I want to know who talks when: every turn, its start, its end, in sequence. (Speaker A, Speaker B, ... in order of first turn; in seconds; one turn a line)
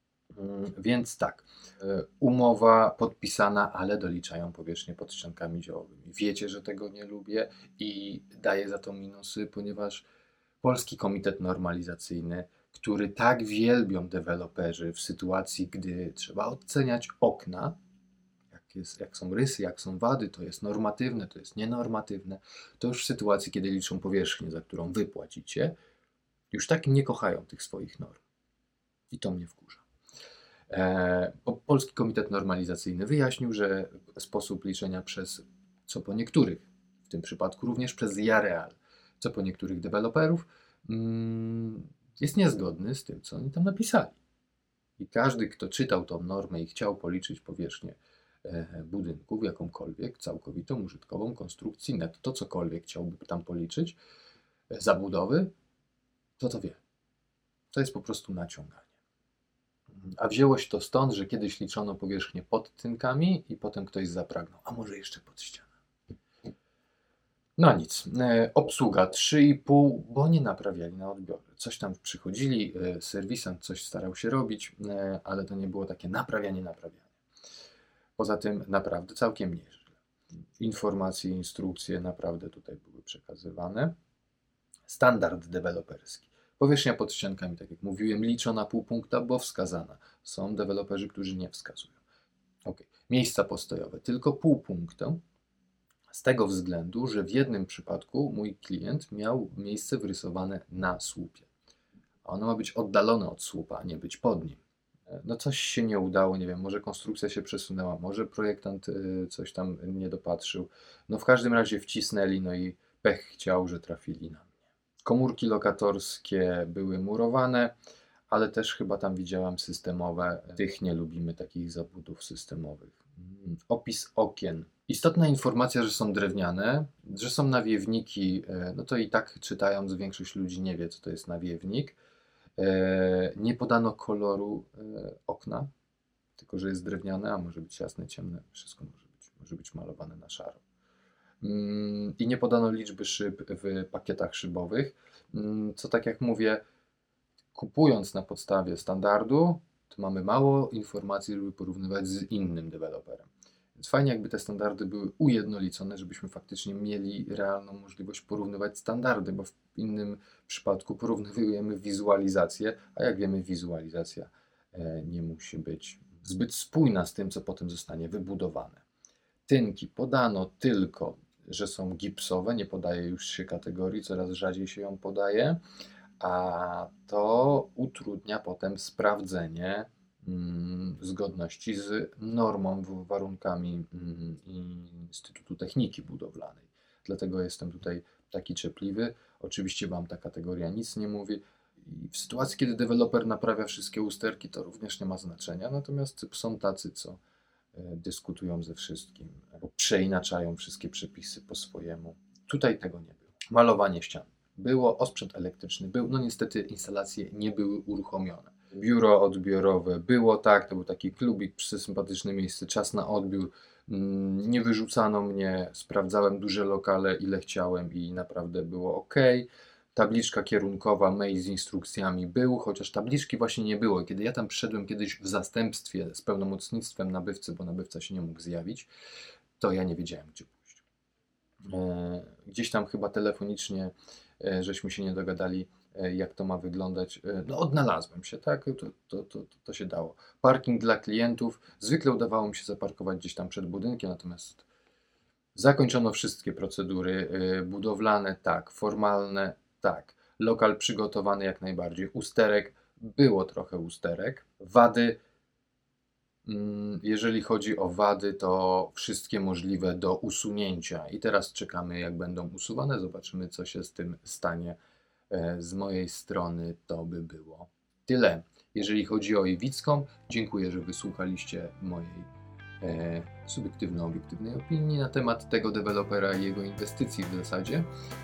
Speaker A: 0.3-10.1
Speaker A: 10.6-17.8
Speaker A: 18.5-25.8
Speaker A: 26.5-28.2
Speaker A: 29.1-29.8
Speaker A: 30.7-44.2
Speaker A: 45.0-54.0
Speaker A: 54.7-55.5
Speaker A: 56.4-56.8
Speaker A: 57.7-58.9
Speaker A: 60.0-65.7
Speaker A: 67.6-77.1
Speaker A: 78.2-80.0
Speaker A: 80.6-83.9
Speaker A: 84.9-92.0
Speaker A: 92.7-95.2
Speaker A: 96.1-101.5
Speaker A: 102.2-114.5
Speaker A: 115.0-117.7
Speaker A: 118.3-132.0
Speaker A: 132.6-135.7
Speaker A: 136.4-140.6
Speaker A: 141.4-146.6
Speaker A: 147.5-168.8
Speaker A: 169.5-175.6
Speaker A: 176.2-197.2
Speaker A: 197.7-228.9
Speaker A: 229.6-230.8
Speaker A: 231.6-244.6
Speaker A: 245.6-255.2
Speaker A: 256.5-264.8
Speaker A: 265.3-272.3
Speaker A: 272.8-277.9